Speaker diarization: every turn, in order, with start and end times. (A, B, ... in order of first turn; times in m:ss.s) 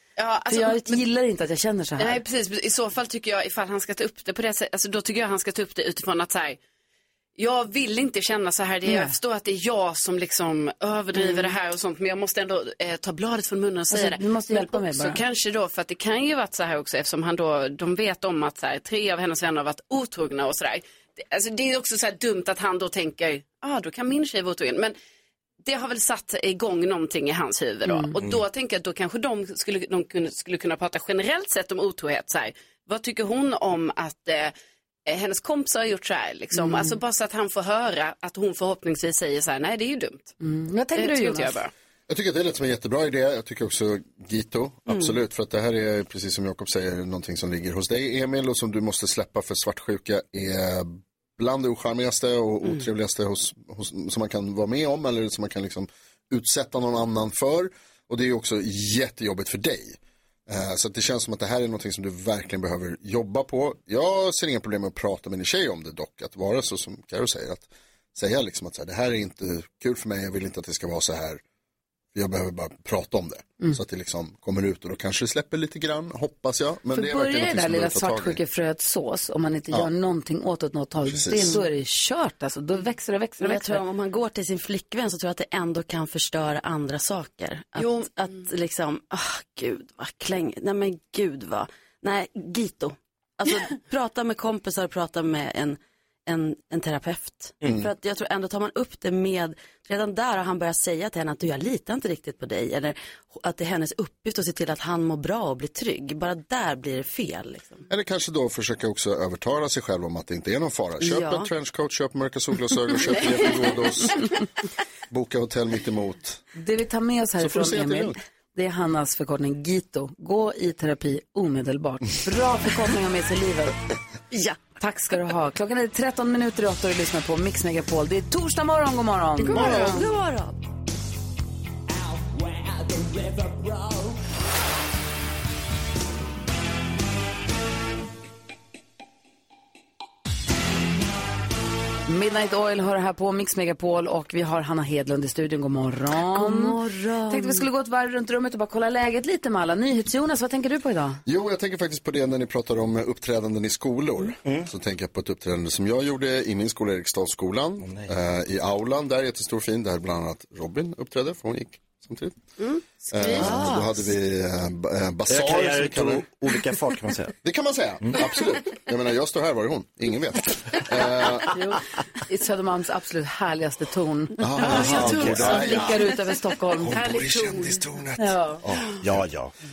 0:00.2-0:01.0 A
0:00.5-0:02.2 B
0:02.0-0:06.6 A
0:07.4-0:24.9 A
0:08.9-0:09.1 B
0:13.9-0:15.2 B
0:25.6-0:34.5 A
0:27.9-0:28.2 B
0:35.0-0:40.3 A
0:36.5-0:37.0 B
0:40.4-0:41.6 B
0:40.9-0:41.7 A
0:42.1-1:11.4 C
0:44.9-0:45.1 D
1:12.1-1:18.4 C
1:16.9-1:23.8 B
1:21.0-1:21.6 C
1:23.4-1:47.9 D
1:37.6-1:37.9 E
1:47.9-1:54.2 C
1:51.0-1:51.5 D
1:53.0-1:53.8 A
1:55.1-1:56.4 C
1:56.5-2:03.7 B
1:57.4-1:58.2 C
2:04.3-2:04.6 D
2:04.8-2:10.0 B
2:09.4-2:10.6 D
2:09.5-2:10.0 A
2:09.5-2:09.9 C
2:22.1-2:26.8 B
2:26.3-2:27.7 D
2:27.3-2:31.2 B
2:31.2-2:42.4 C
2:34.4-2:34.7 E
2:37.8-2:38.1 E
2:43.0-2:43.6 A
2:43.1-2:46.2 C
2:43.2-2:44.0 D
2:43.4-2:43.7 E
2:45.3-2:47.3 E
2:47.4-2:51.5 C
2:51.5-2:57.2 B
2:54.4-2:56.0 C
2:54.6-2:56.3 A
2:54.6-2:55.8 E
2:56.8-2:57.8 A
2:56.8-2:59.0 C
2:58.2-2:58.6 B
2:59.0-2:59.5 E